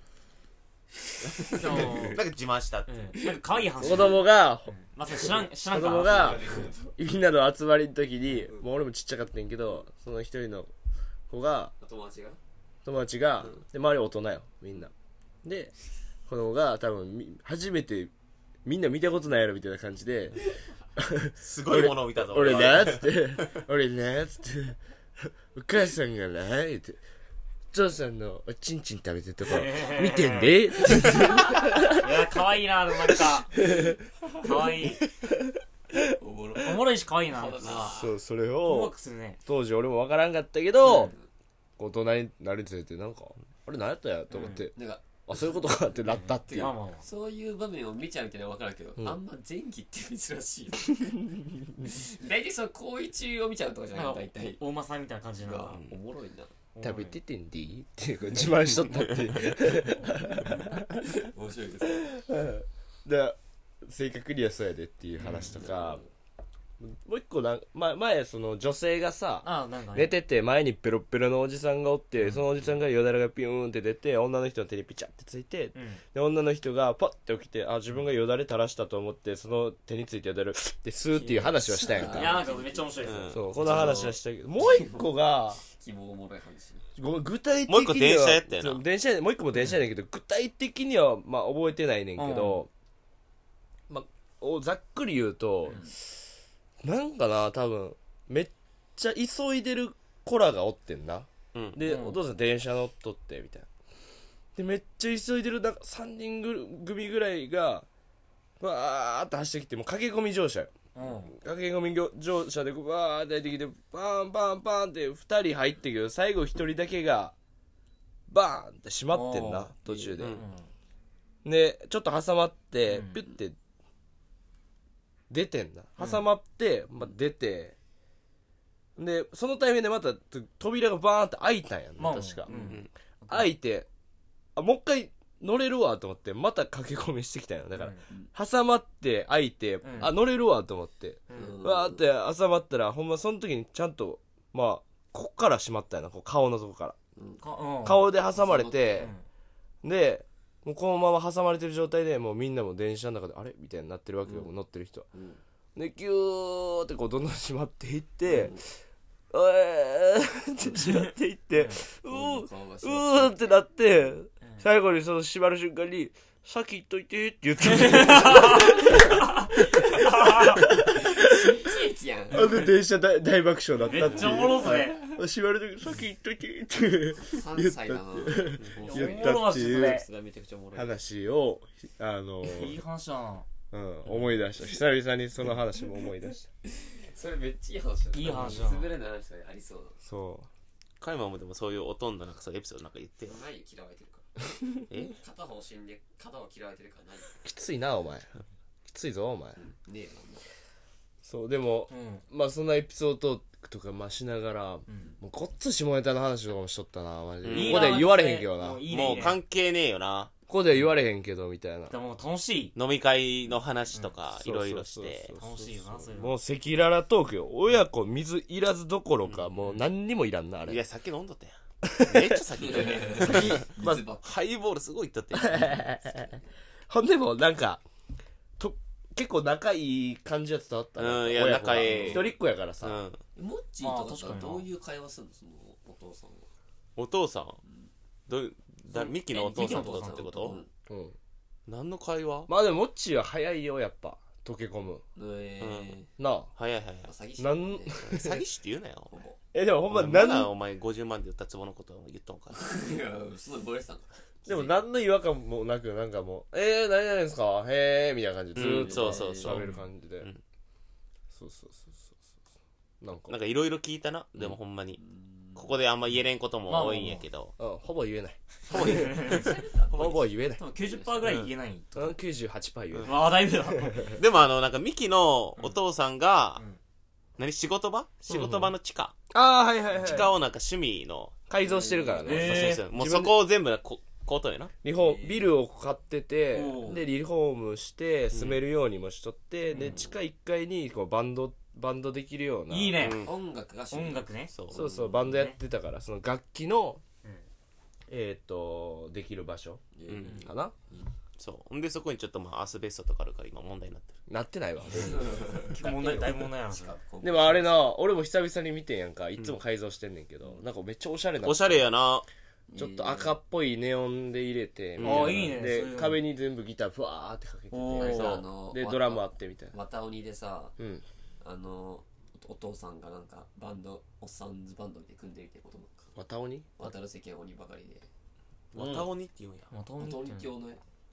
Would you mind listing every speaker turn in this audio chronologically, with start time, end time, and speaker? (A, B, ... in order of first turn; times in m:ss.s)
0:01.3-0:02.2 A
0:01.5-0:02.1 B
0:01.5-0:02.2 C
0:01.8-0:02.9 D
0:02.9-0:06.6 C
0:03.2-0:04.1 A
0:03.8-0:10.7 B
0:06.0-0:06.9 A
0:11.3-0:11.7 B
0:11.8-0:12.4 A
0:12.8-0:14.9 B
0:15.4-0:15.7 B
0:16.3-0:18.1 B
0:18.6-0:20.4 B
0:21.0-0:27.0 B
0:21.4-0:23.6 D
0:27.7-0:32.1 B
0:29.4-0:33.8 C
0:33.2-0:34.0 B
0:34.4-0:35.0 C
0:35.4-0:36.0 B
0:36.0-0:38.2 A
0:36.6-0:38.0 C
0:37.9-0:38.9 B
0:38.6-0:39.4 C
0:39.4-0:41.1 B
0:40.8-0:41.1 C
0:40.8-0:41.3 A
0:41.8-0:46.7 B
0:44.3-0:44.7 C
0:44.7-0:45.6 A
0:46.2-0:54.6 A
0:46.5-0:47.1 C
0:53.9-0:55.8 C
0:55.4-0:56.5 A
0:55.7-0:56.0 D
0:56.8-0:57.2 C
0:56.8-1:01.2 B
1:01.0-1:02.2 A
1:01.9-1:06.0 B
1:05.2-1:05.6 C
1:05.4-1:06.1 A
1:06.8-1:22.4 B
1:09.4-1:10.2 C
1:15.7-1:16.0 C
1:21.1-1:25.1 A
1:21.9-1:24.0 C
1:23.0-1:23.5 D
1:23.3-1:25.6 B
1:25.6-1:26.9 A
1:27.0-1:32.7 B
1:27.7-1:28.8 D
1:32.2-1:32.7 C
1:33.9-1:36.1 B
1:35.7-1:35.9 A
1:36.8-1:43.7 B
1:41.5-1:41.8 D
1:41.8-1:42.2 C
1:44.6-1:47.9 B
1:48.6-1:50.7 B
1:51.0-1:51.4 C
1:51.3-1:57.4 B
1:58.3-2:00.4 B
1:59.1-1:59.7 C
1:59.9-2:00.2 A
2:00.2-2:00.4 D
2:00.3-2:00.7 C
2:01.4-2:03.6 B
2:02.9-2:03.2 C
2:05.3-2:07.8 B
2:06.0-2:06.2 C
2:09.0-2:12.5 B
2:12.0-2:13.5 C
2:12.5-2:12.8 A
2:12.5-2:12.9 D
2:13.3-2:13.9 B
2:14.6-2:27.0 B
2:17.8-2:18.0 C
2:19.8-2:20.2 C
2:21.3-2:21.6 C
2:21.3-2:22.0 A
2:27.2-2:27.4 A
2:27.4-2:28.0 C
2:27.8-2:29.1 B
2:28.3-2:29.1 A
2:29.0-2:29.2 C
2:29.8-2:35.1 B
2:35.1-2:35.4 A
2:35.8-2:38.7 B
2:38.3-2:38.6 A
2:39.3-2:51.7 B
2:41.5-2:41.8 C
2:42.1-2:43.6 A
2:44.4-2:44.7 C
2:47.6-2:50.7 C
2:50.9-2:52.5 A
2:52.3-3:00.0 B
2:52.4-2:52.7 C
2:53.8-2:55.2 C
2:57.2-3:00.9 A
2:58.8-3:00.0 C
3:00.7-3:02.8 B
3:02.4-3:03.5 C
3:03.7-3:06.5 B
3:06.6-3:10.0 A
3:08.1-3:08.9 C
3:10.0-3:10.5 B
3:11.0-3:13.4 D
3:13.2-3:14.4 A
3:14.9-3:15.2 D
3:15.1-3:17.4 A
3:17.4-3:18.3 B
3:18.9-3:19.6 B
3:19.6-3:20.5 A
3:21.2-3:28.9 B
3:21.9-3:22.2 C
3:27.4-3:28.0 D
3:27.5-3:29.4 C
3:28.9-3:30.3 D
3:30.5-3:32.0 B
3:31.9-3:32.7 C
3:32.8-3:35.3 D
3:34.4-3:40.8 B
3:35.4-3:36.4 C
3:39.2-3:39.5 D
3:40.6-3:45.8 D
3:41.8-3:42.5 B
3:42.6-3:44.4 A
3:43.1-3:44.0 B
3:45.3-3:47.8 B
3:48.6-3:53.0 B
3:51.0-3:53.2 D
3:53.4-3:56.5 A
3:53.8-3:54.7 C
3:57.0-3:57.6 D
3:57.6-3:57.9 A
3:58.3-4:00.6 D
3:58.9-4:00.6 C
3:59.3-4:00.7 A
4:00.9-4:01.2 B
4:01.7-4:02.5 D
4:02.5-4:05.0 B
4:05.2-4:06.1 A
4:05.6-4:06.0 D
4:06.2-4:06.5 B
4:06.6-4:07.1 D
4:07.0-4:08.1 A
4:07.4-4:08.5 B
4:08.0-4:09.1 D
4:09.1-4:09.4 A
4:09.5-4:10.5 B
4:09.9-4:12.6 D
4:12.5-4:14.8 A
4:14.5-4:20.3 B
4:18.6-4:20.4 D
4:18.6-4:19.6 A
4:19.5-4:19.9 C
4:21.3-4:22.2 B
4:23.0-4:23.4 B
4:23.3-4:25.0 D
4:25.0-4:25.8 A
4:25.6-4:27.5 D
4:26.7-4:27.3 C
4:27.6-4:29.4 B
4:28.7-4:29.6 D
4:28.7-4:29.5 C
4:28.9-4:31.4 A
4:29.9-4:30.6 B
4:30.6-4:32.1 C
4:31.2-4:31.5 D
4:32.0-4:34.1 B
4:33.0-4:34.2 C
4:34.1-4:36.6 D
4:37.4-4:39.2 D
4:38.3-4:38.7 B
4:39.3-4:40.4 B
4:40.0-4:41.4 D
4:41.5-4:43.4 B
4:41.6-4:42.4 A
4:42.2-4:42.8 C
4:42.3-4:44.7 D
4:44.8-4:53.1 B
4:44.9-4:45.5 A
4:46.5-4:47.0 C
4:48.3-4:48.6 D
4:49.7-4:50.0 C
4:49.8-4:50.1 A
4:52.7-4:53.3 C
4:53.0-4:53.4 D
4:53.2-4:55.3 A
4:53.9-4:54.5 C
4:54.5-4:54.8 D
4:54.7-4:57.0 B
4:55.2-4:55.6 C
4:58.1-4:59.8 B
4:59.9-5:01.1 A
5:00.1-5:00.4 D
5:00.3-5:00.7 B
5:01.4-5:04.2 D
5:04.3-5:05.6 B
5:05.0-5:07.8 A
5:05.6-5:07.0 C
5:07.2-5:11.8 B
5:11.4-5:12.3 D
5:12.7-5:13.4 A
5:12.8-5:19.7 B
5:15.0-5:15.6 D
5:15.0-5:16.2 C
5:17.7-5:18.4 C
5:18.0-5:20.8 A
5:18.0-5:18.4 D
5:20.8-5:21.0 B
5:21.4-5:26.1 A
5:26.2-5:26.7 B
5:26.8-5:28.1 A
5:28.7-5:29.7 D
5:28.8-5:29.1 B
5:29.7-5:30.5 C
5:30.0-5:30.8 A